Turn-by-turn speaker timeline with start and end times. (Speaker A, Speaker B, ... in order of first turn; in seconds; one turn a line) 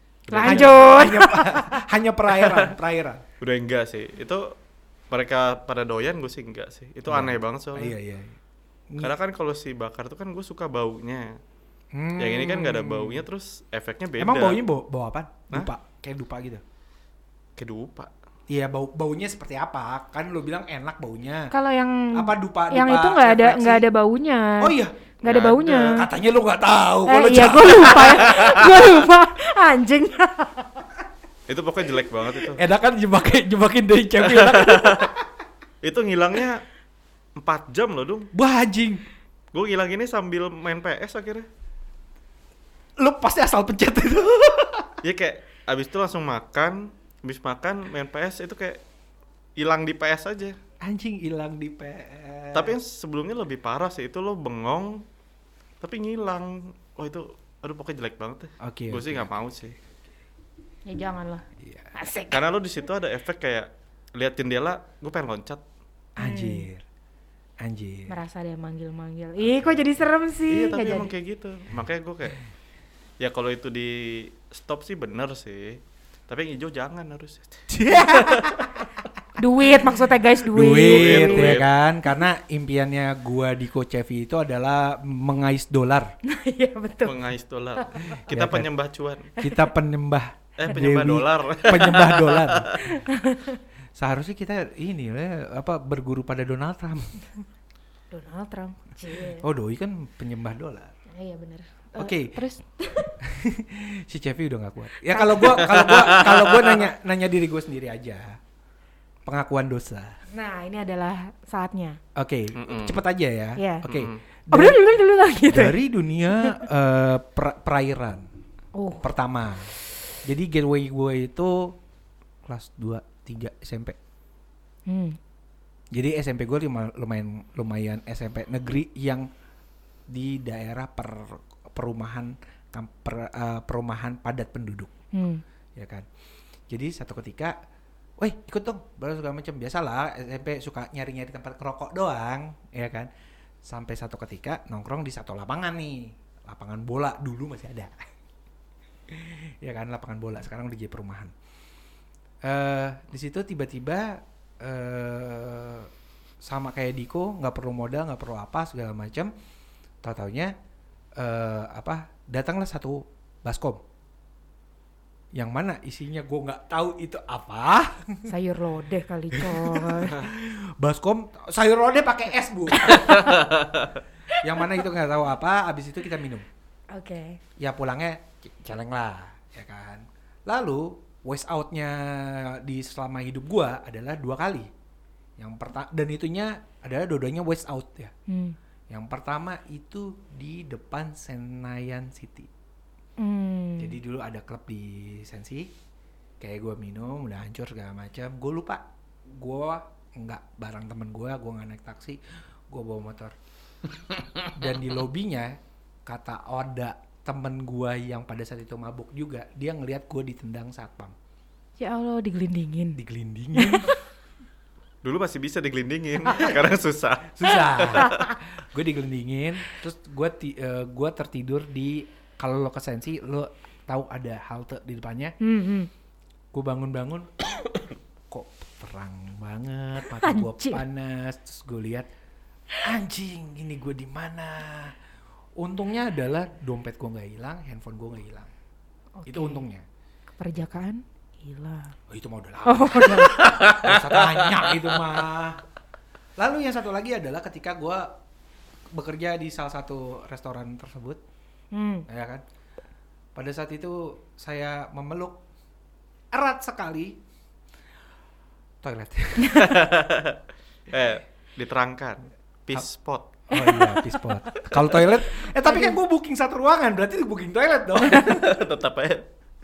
Speaker A: 0.3-1.1
Speaker B: 0.3-1.8
Speaker C: 0.4-3.2
Speaker A: 2.4-2.7
Speaker A: 3.4-4.5
Speaker A: 5.1-7.9
Speaker C: 7.1-8.4
Speaker A: 9.0-11.4
Speaker C: 11.9-13.2
Speaker A: 12.2-14.6
Speaker C: 14.2-16.6
Speaker A: 17.6-18.1
Speaker C: 18.5-21.5
Speaker B: 21.5-26.1
Speaker C: 22.1-23.9
Speaker C: 24.6-25.1
Speaker A: 25.2-26.0
Speaker C: 25.9-29.0
Speaker B: 27.1-30.8
Speaker A: 31.5-32.6
Speaker C: 32.4-35.3
Speaker A: 34.2-35.1
Speaker A: 35.8-36.6
Speaker A: 37.4-38.3
Speaker C: 38.3-39.0
Speaker A: 39.5-41.5
Speaker C: 43.0-45.0
Speaker A: 45.0-48.8
Speaker A: 49.6-50.6
Speaker C: 50.8-52.8
Speaker A: 52.5-55.0
Speaker A: 55.8-59.8
Speaker C: 58.6-59.3
Speaker B: 60.9-62.5
Speaker C: 61.6-61.9
Speaker A: 62.3-65.6
Speaker C: 66.2-66.8
Speaker B: 66.2-66.7
Speaker C: 67.6-68.1
Speaker B: 68.1-71.1
Speaker A: 70.5-72.4
Speaker A: 73.2-78.8
Speaker C: 77.7-78.7
Speaker B: 79.4-81.6
Speaker C: 80.5-86.1
Speaker A: 80.7-81.7
Speaker B: 86.2-87.2
Speaker A: 87.0-89.3
Speaker B: 87.8-88.2
Speaker C: 88.3-88.7
Speaker C: 89.4-92.7
Speaker B: 89.4-89.7
Speaker A: 90.6-92.8
Speaker B: 92.8-93.6
Speaker C: 94.0-97.2
Speaker B: 98.1-99.5
Speaker C: 99.4-100.9
Speaker B: 101.1-103.2
Speaker C: 102.0-102.4
Speaker C: 103.2-108.4
Speaker B: 105.1-105.8
Speaker A: 105.6-106.8
Speaker C: 109.3-110.2
Speaker B: 110.3-112.0
Speaker C: 112.2-114.8
Speaker A: 112.5-113.0
Speaker B: 113.6-113.8
Speaker A: 113.9-114.2
Speaker B: 114.5-115.8
Speaker C: 115.5-118.3
Speaker B: 118.8-119.1
Speaker C: 119.0-121.8
Speaker C: 122.5-124.0
Speaker B: 124.9-125.2
Speaker C: 125.9-129.3
Speaker C: 130.1-134.9
Speaker B: 135.1-135.4
Speaker C: 135.8-136.1
Speaker C: 136.7-137.6
Speaker C: 138.2-143.1
Speaker C: 143.7-148.1
Speaker C: 149.1-151.3
Speaker C: 152.4-155.9
Speaker C: 156.4-159.3
Speaker C: 160.0-160.5
Speaker C: 161.2-163.8
Speaker C: 165.3-168.3
Speaker B: 168.3-170.2
Speaker C: 169.3-173.5
Speaker B: 172.8-173.3
Speaker A: 173.3-173.6
Speaker C: 174.4-176.5
Speaker B: 176.9-177.4
Speaker C: 177.6-184.7
Speaker C: 185.4-188.1
Speaker B: 188.3-188.6
Speaker C: 188.9-192.5
Speaker B: 193.2-194.0
Speaker C: 193.8-195.7
Speaker C: 196.4-203.3
Speaker C: 204.5-211.2
Speaker B: 211.8-213.0
Speaker C: 213.0-213.9
Speaker B: 213.6-214.0
Speaker A: 215.0-218.3
Speaker C: 217.3-225.4
Speaker B: 218.0-218.3
Speaker B: 225.4-225.9
Speaker C: 226.5-227.3
Speaker C: 228.3-232.1
Speaker B: 230.1-230.8
Speaker C: 232.8-235.0
Speaker C: 235.6-238.5
Speaker B: 239.2-239.7
Speaker C: 239.3-239.8
Speaker B: 240.4-241.9
Speaker C: 242.1-245.6
Speaker B: 242.7-243.5
Speaker A: 243.5-244.1
Speaker C: 246.4-248.1
Speaker C: 248.9-251.2
Speaker B: 251.7-252.1
Speaker C: 252.1-252.4
Speaker C: 253.3-255.4
Speaker C: 256.3-257.2
Speaker C: 258.8-259.8
Speaker B: 259.4-259.7
Speaker A: 259.6-260.4
Speaker A: 260.9-263.3
Speaker C: 263.5-268.4
Speaker B: 263.5-264.0
Speaker A: 264.7-265.1
Speaker B: 265.6-266.0
Speaker A: 268.1-269.2